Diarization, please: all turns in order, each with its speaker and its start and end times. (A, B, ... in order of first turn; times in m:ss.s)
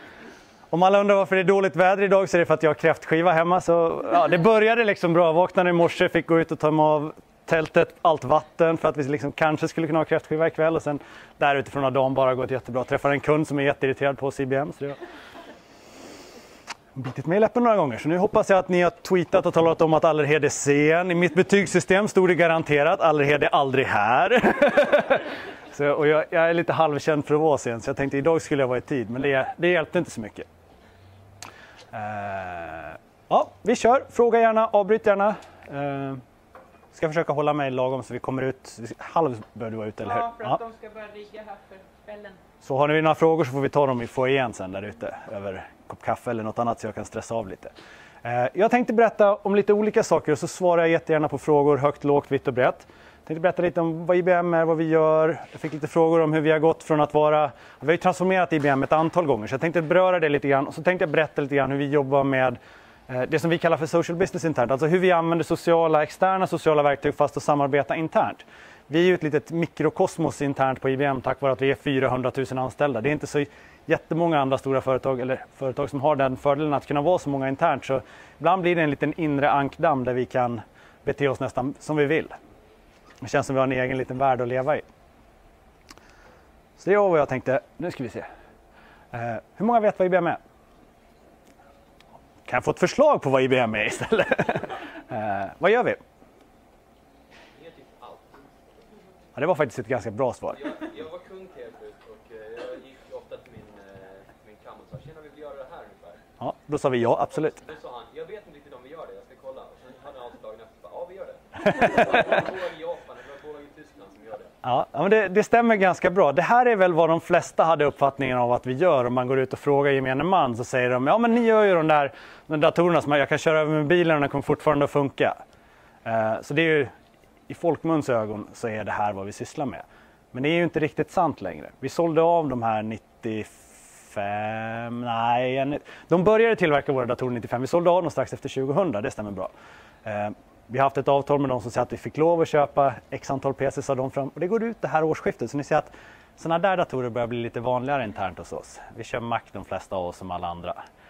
0:00.7-0:15.0 A
0:17.0-0:30.5 A
0:31.9-0:36.2 A
0:36.9-0:40.6 A
0:40.0-0:42.4 B
0:42.6-0:47.7 A
0:48.2-1:22.4 A
1:23.2-1:24.8 A
1:26.8-1:28.3 A
1:29.1-1:30.4 A
1:32.5-1:36.0 A
1:37.5-1:38.9 C
1:39.4-1:40.7 A
1:40.5-1:46.2 C
1:46.4-1:47.6 A
1:47.3-1:54.6 C
1:51.7-1:52.0 A
1:54.6-2:05.4 A
2:06.0-2:06.9 A
2:07.5-2:19.5 A
2:20.0-2:30.8 A